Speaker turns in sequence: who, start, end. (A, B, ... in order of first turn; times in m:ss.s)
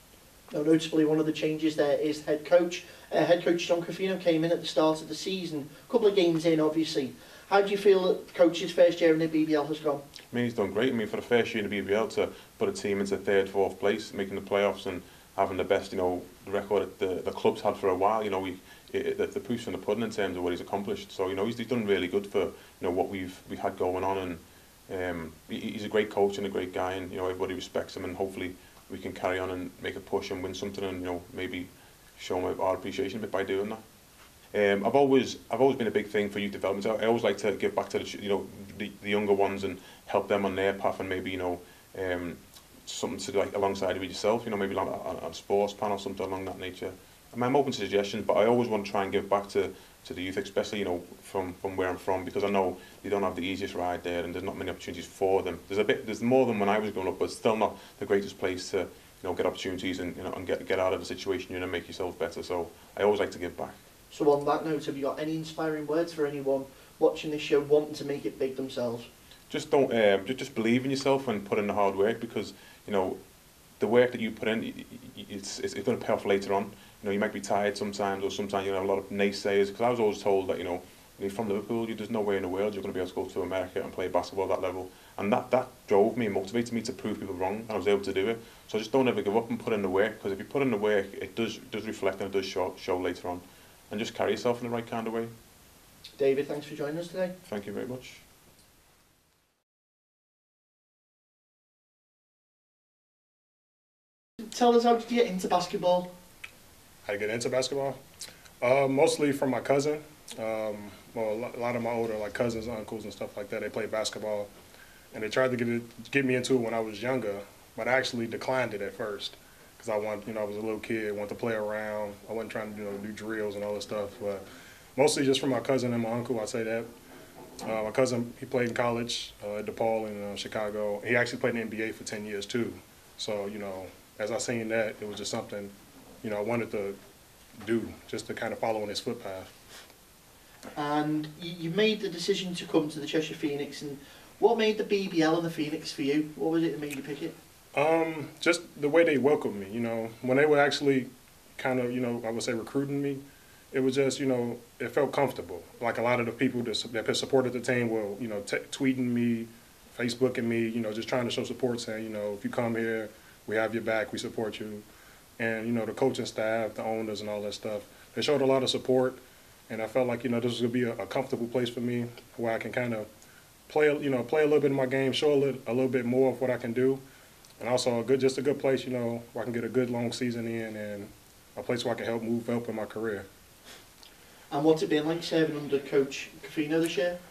0:00.5-0:10.0 A
0:10.3-0:33.8 B
0:34.5-1:03.8 B
1:04.1-1:09.1 A
1:09.5-1:13.2 B
1:13.8-1:35.3 B
1:36.2-1:37.3 A
1:37.4-1:38.2 B
1:44.4-1:46.1 A
1:47.1-1:48.0 C
1:48.6-1:54.5 C
1:55.1-2:04.4 C
2:05.0-2:06.9 C
2:07.6-2:17.0 C
2:17.6-2:19.6 C
2:20.8-2:27.4 A
2:27.7-2:44.8 C
2:45.4-2:53.1 C
2:53.7-2:57.0 C
2:57.6-3:03.3 C
3:04.5-3:07.2 A